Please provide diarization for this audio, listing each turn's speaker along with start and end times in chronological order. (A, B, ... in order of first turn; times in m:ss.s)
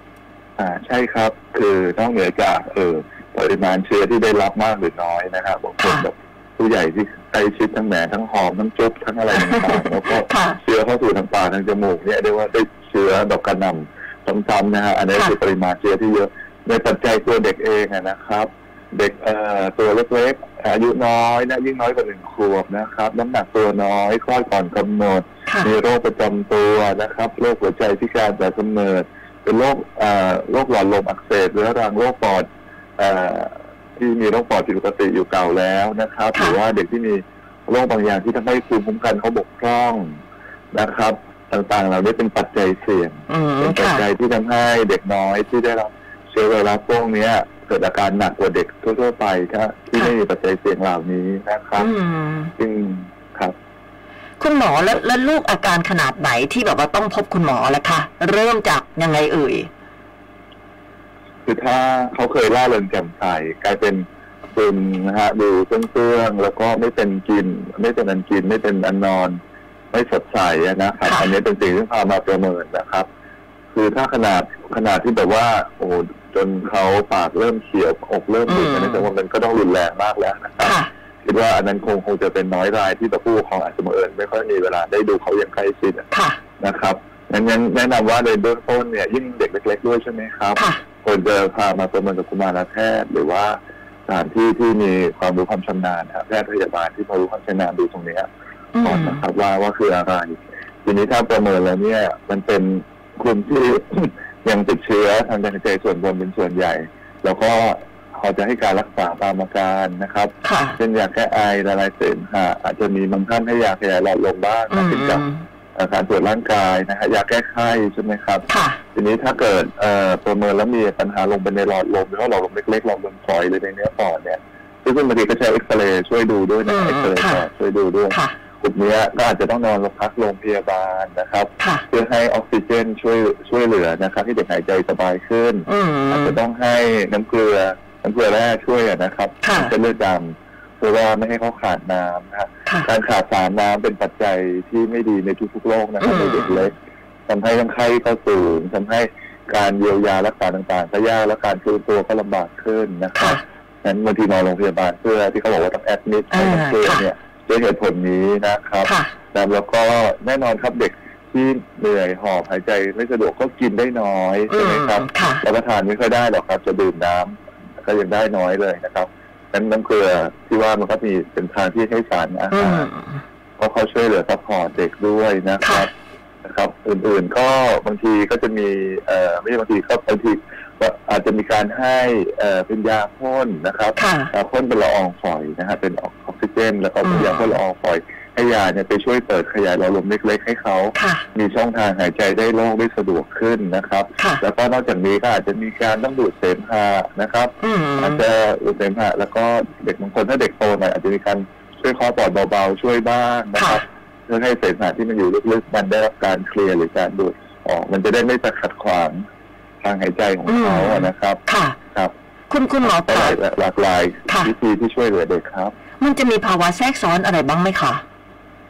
0:00.6-0:32.5 A
0:05.8-0:06.1 B
0:09.3-0:10.6 B
0:25.5-0:25.7 B
0:33.0-0:40.2 A
0:40.7-0:51.9 A
0:43.3-0:44.1 B
0:51.8-0:52.5 B
0:52.6-0:53.6 A
0:54.4-0:59.7 B
1:01.4-1:09.4 A
1:09.9-1:13.1 A
1:11.1-1:11.3 B
1:13.7-1:26.1 A
1:18.5-1:19.1 B
1:20.6-1:20.9 B
1:26.1-1:26.4 B
1:26.6-1:38.3 A
1:30.6-1:30.8 B
1:38.8-1:39.2 B
1:38.8-2:26.8 A
1:50.4-1:50.8 B
1:54.7-1:55.4 B
1:58.5-1:58.8 B
2:06.7-2:07.5 B
2:08.1-2:08.4 B
2:11.6-2:11.9 B
2:15.7-2:16.4 B
2:19.4-2:19.7 B
2:26.0-2:26.7 B
2:27.3-2:52.9 A
2:36.3-2:37.1 B
2:38.8-2:39.1 B
2:44.5-2:45.4 B
2:52.5-2:53.2 B
2:53.6-2:55.9 A
2:55.6-2:55.9 B
2:56.4-3:29.2 A
3:04.0-3:04.3 B
3:07.0-3:07.6 B
3:11.0-3:11.2 B
3:14.2-3:14.4 B
3:17.6-3:18.2 B
3:23.6-3:23.8 B
3:29.8-3:31.4 A
3:30.5-3:31.8 B
3:32.5-3:33.4 B
3:32.8-3:35.7 A
3:36.0-3:38.0 B